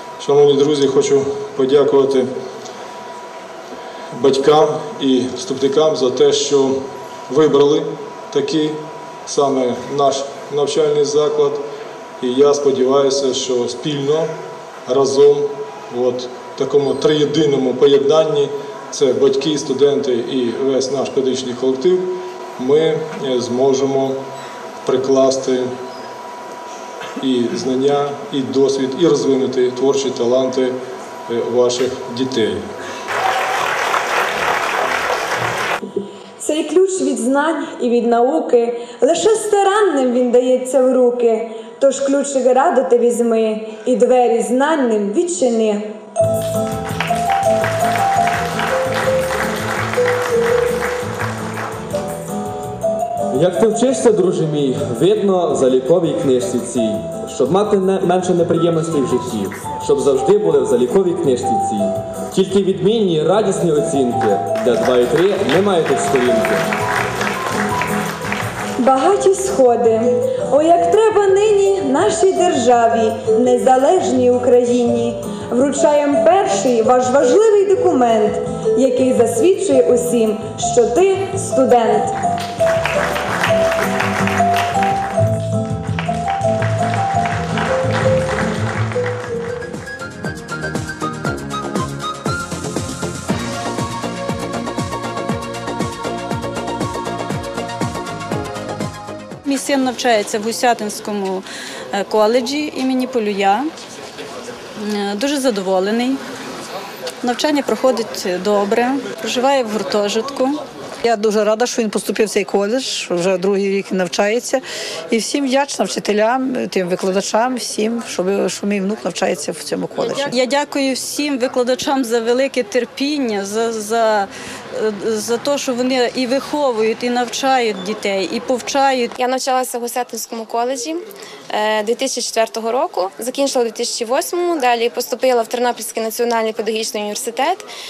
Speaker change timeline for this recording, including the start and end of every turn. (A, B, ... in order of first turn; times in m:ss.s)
0:00.2-0:02.3 A
0:04.1-0:06.8 A
0:07.3-0:11.6 A
0:12.2-0:14.3 A
0:14.9-0:24.2 A
0:24.8-0:25.7 A
0:27.2-0:30.8 A
0:31.3-0:32.6 A
0:36.4-0:45.9 B
0:53.3-1:06.6 C
1:08.8-1:22.2 B
1:39.4-1:43.7 D
1:44.9-1:46.2 D
1:47.2-1:50.6 D
1:51.0-2:00.3 E
2:00.0-2:09.1 D
2:09.2-2:11.0 F
2:11.5-2:17.7 F